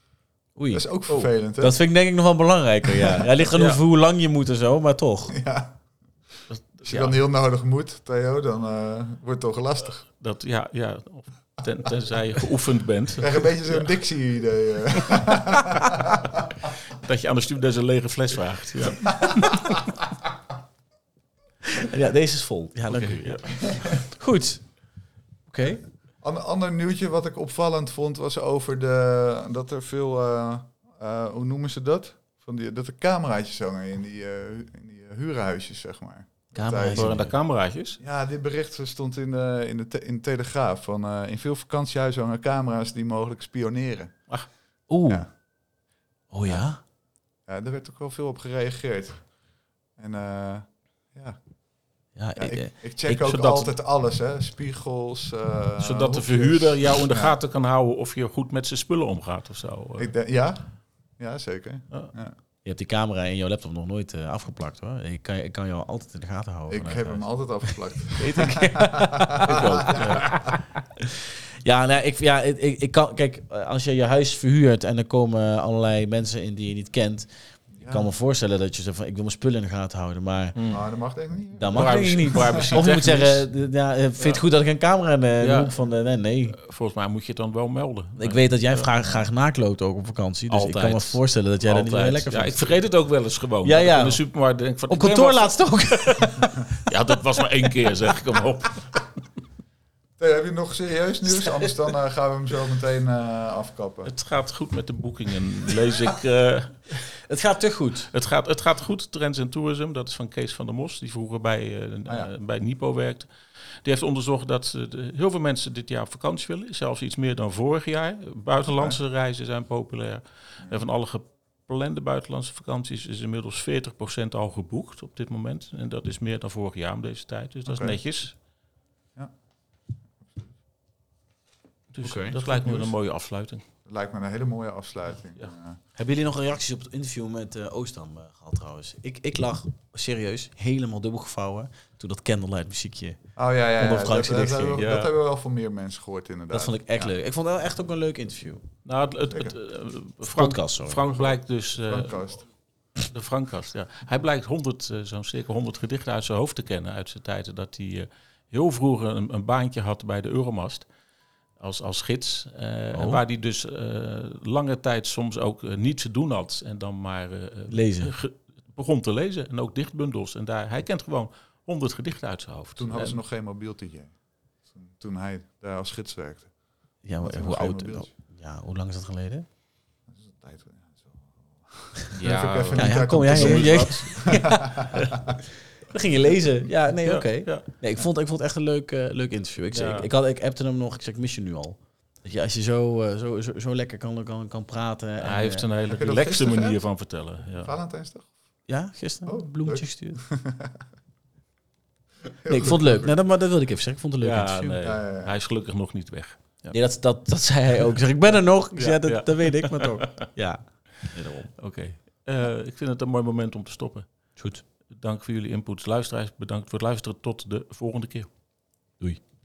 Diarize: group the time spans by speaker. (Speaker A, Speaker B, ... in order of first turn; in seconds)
Speaker A: 0.6-5.4, 21.8-25.8, 36.5-37.3, 44.9-45.4, 46.3-46.8, 52.2-52.7, 62.6-67.4, 68.2-70.5, 71.6-80.6, 81.6-86.6, 88.2-92.8, 93.6-94.2, 94.9-96.9, 101.3-101.7, 107.3-108.1, 132.0-132.9, 135.9-143.2, 143.8-144.9, 146.5-148.6, 150.3-151.0, 162.9-163.2, 167.7-168.1, 177.0-179.5, 182.8-184.9, 185.9-195.7, 198.7-200.2, 202.5-204.8, 206.7-211.5, 214.4-214.6
Speaker B: 0.7-1.8, 5.3-5.8, 6.8-10.0, 13.2-16.2, 26.2-37.4, 38.0-44.4, 47.5-49.3, 50.0-51.4, 52.4-57.4, 60.0-62.4, 66.7-70.2, 77.8-78.1, 80.7-82.8, 100.2-104.1, 118.7-119.0, 127.7-128.0, 130.2-130.5, 133.9-135.8, 143.4-147.1, 149.3-149.6, 151.8-152.4, 172.8-176.5, 177.2-178.1, 180.1-184.2, 195.9-196.8, 197.6-198.3, 199.3-200.8, 202.4-203.1, 204.8-205.3
Speaker C: 3.5-3.8, 6.5-7.2, 10.2-13.9, 16.9-19.8, 22.9-23.9, 36.9-38.0, 53.1-53.7, 55.8-60.1, 69.5-70.3, 80.5-80.8, 81.7-83.5, 85.4-85.7, 86.6-89.2, 90.5-96.1, 96.9-99.0, 104.1-107.0, 108.1-113.3, 113.8-128.3, 131.9-133.6, 144.8-145.1, 148.8-152.4, 153.0-160.9, 161.6-173.2, 182.1-184.6, 187.1-187.7, 189.7-190.1, 195.2-197.7, 204.2-206.7, 208.8-210.3, 211.6-214.3, 214.9-218.3